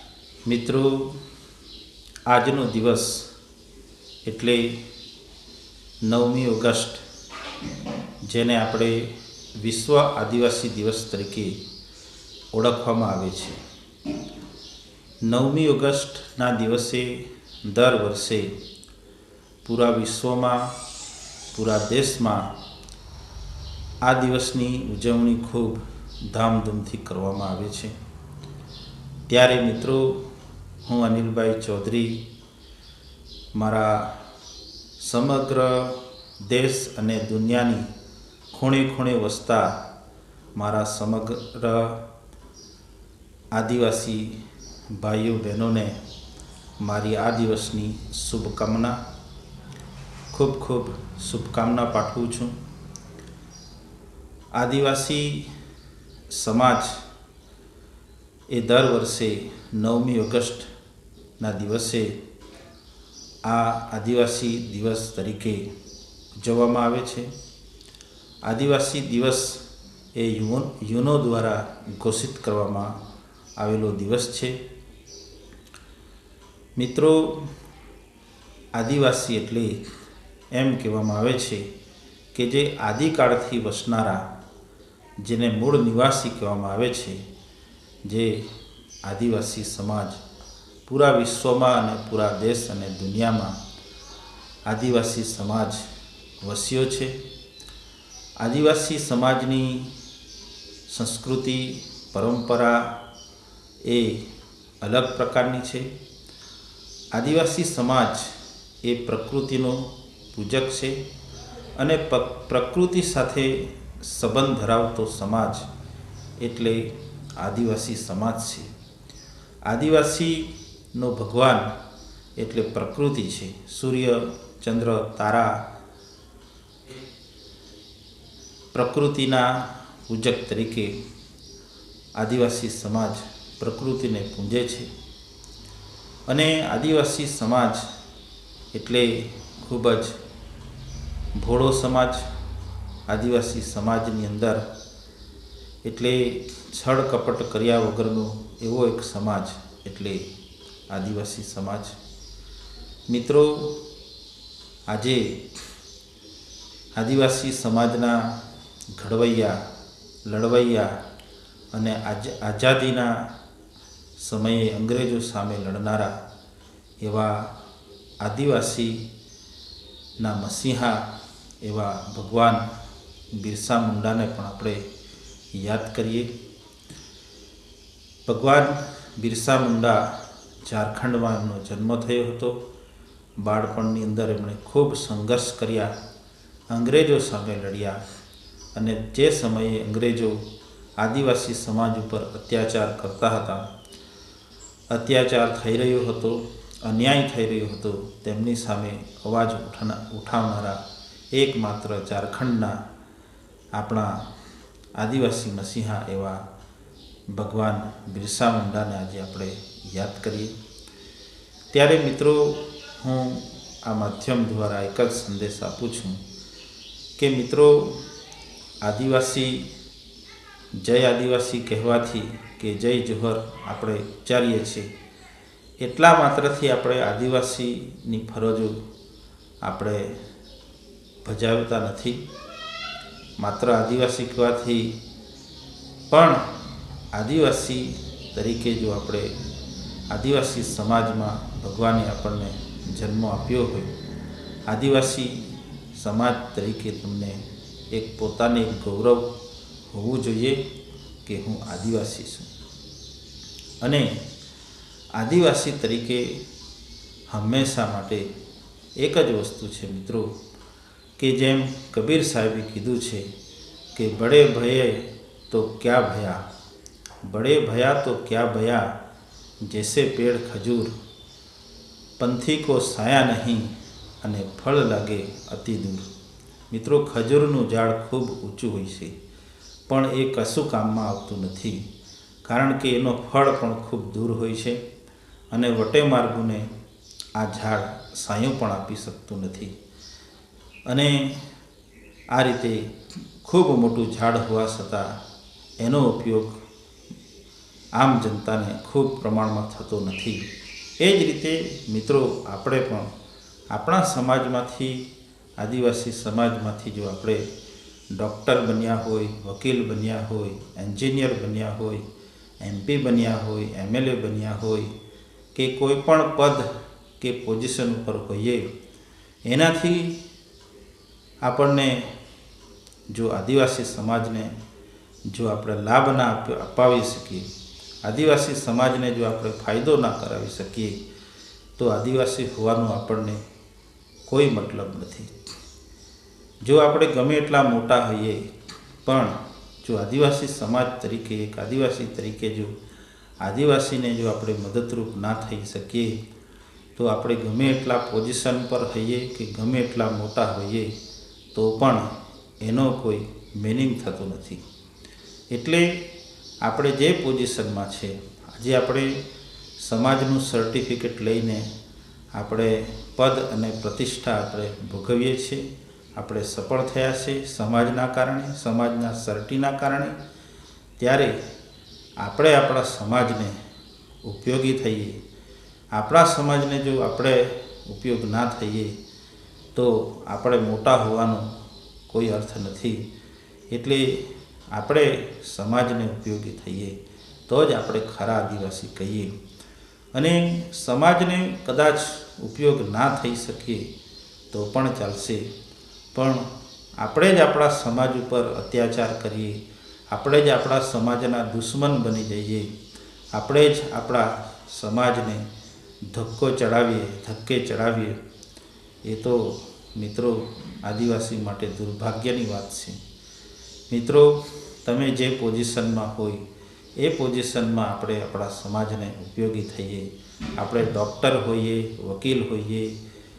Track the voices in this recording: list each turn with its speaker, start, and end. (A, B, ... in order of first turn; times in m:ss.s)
0:00.5-0:01.2 A
0:02.3-0:03.3 A
0:04.2-0:04.7 A
0:06.0-0:07.0 A
0:08.2-0:11.6 A
0:12.5-0:13.6 A
0:15.2-0:18.5 A
0:19.6-0:20.7 A
0:21.5-0:22.5 A
0:24.0-0:28.0 A
0:29.3-0:30.2 A
0:30.8-0:32.2 A
0:33.5-0:34.2 A
0:35.0-0:37.9 A
0:38.5-0:39.8 A
0:40.6-0:42.0 A
0:43.5-0:44.4 A
0:44.9-0:46.0 A
0:46.8-0:49.0 A
0:50.3-0:52.6 A
0:54.5-0:55.5 A
0:56.3-0:57.0 A
0:58.5-1:00.7 A
1:01.4-1:02.1 A
1:03.4-1:05.7 A
1:06.4-1:07.3 A
1:08.4-1:09.6 A
1:10.1-1:12.9 A
1:13.6-1:14.6 A
1:16.8-1:17.5 A
1:18.7-1:19.8 A
1:20.5-1:21.7 A
1:22.3-1:24.2 A
1:25.2-1:27.2 A
1:28.0-1:28.5 A
1:29.0-1:30.2 A
1:30.8-1:33.6 A
1:34.6-1:35.9 A
1:36.4-1:37.2 A
1:38.4-1:39.9 A
1:40.9-1:42.9 A
1:43.8-1:44.3 A
1:44.8-1:45.9 A
1:47.1-1:51.0 A
1:51.8-1:55.6 A
1:56.4-1:58.7 A
1:59.7-2:01.7 A
2:02.4-2:05.6 A
2:08.7-2:10.9 A
2:12.2-2:14.9 A
2:16.3-2:17.8 A
2:18.7-2:20.2 A
2:21.4-2:22.2 A
2:23.1-2:24.6 A
2:25.8-2:30.3 A
2:30.9-2:32.0 A
2:33.1-2:33.8 A
2:34.9-2:35.4 A
2:37.0-2:38.3 A
2:38.9-2:39.6 A
2:40.2-2:40.9 A
2:41.7-2:43.2 A
2:44.2-2:46.1 A
2:47.0-2:47.5 A
2:48.2-2:49.0 A
2:50.2-2:51.0 A
2:51.6-2:52.7 A
2:53.3-2:54.8 A
2:55.5-2:56.3 A
2:58.2-3:02.6 A
3:03.4-3:05.9 A
3:06.7-3:08.0 A
3:08.7-3:10.4 A
3:11.0-3:13.7 A
3:14.9-3:20.8 A
3:21.3-3:22.8 A
3:23.7-3:24.3 A
3:25.0-3:26.4 A
3:27.3-3:30.5 A
3:31.7-3:36.2 A
3:37.2-3:38.0 A
3:38.8-3:39.7 A
3:40.8-3:44.9 A
3:45.8-3:48.8 A
3:49.6-3:50.2 A
3:51.2-3:52.2 A
3:53.4-3:55.0 A
3:56.1-3:56.4 A
3:57.1-3:59.3 A
4:00.1-4:03.9 A
4:04.7-4:09.3 A
4:09.9-4:10.6 A
4:11.2-4:12.5 A
4:13.8-4:14.2 A
4:15.1-4:16.4 A
4:17.3-4:18.3 A
4:19.0-4:20.3 A
4:21.2-4:23.3 A
4:23.9-4:26.4 A
4:27.3-4:28.9 A
4:29.6-4:30.9 A
4:32.2-4:36.1 A
4:36.7-4:39.1 A
4:39.9-4:41.8 A
4:42.4-4:44.8 A
4:45.5-4:46.7 A
4:47.4-4:49.7 A
4:50.9-4:51.4 A
4:52.3-4:52.9 A
4:53.4-4:55.1 A
4:55.8-4:56.6 A
4:58.0-5:00.4 A
5:01.0-5:03.1 A
5:03.7-5:05.1 A
5:05.6-5:07.4 A
5:08.1-5:12.0 A
5:12.6-5:14.9 A
5:15.5-5:16.7 A
5:17.2-5:18.7 A
5:19.4-5:20.2 A
5:21.4-5:22.1 A
5:23.1-5:24.5 A
5:25.3-5:27.5 A
5:28.0-5:31.0 A
5:31.8-5:33.4 A
5:34.2-5:35.3 A
5:36.6-5:38.5 A
5:39.0-5:42.7 A
5:43.4-5:46.1 A
5:47.0-5:50.9 A
5:51.5-5:52.0 A
5:52.6-5:54.6 A
5:55.5-5:56.0 A
5:56.6-5:59.2 A
5:59.8-6:01.7 A
6:02.3-6:10.2 A
6:11.0-6:11.4 A
6:12.2-6:13.6 A
6:14.2-6:15.2 A
6:15.9-6:19.0 A
6:19.7-6:21.5 A
6:22.1-6:23.0 A
6:23.7-6:27.0 A
6:27.5-6:29.3 A
6:30.1-6:33.9 A
6:34.5-6:35.5 A
6:36.1-6:42.7 A
6:43.3-6:45.5 A
6:46.1-6:48.2 A
6:49.0-6:53.0 A
6:53.9-6:56.4 A
6:57.0-7:02.9 A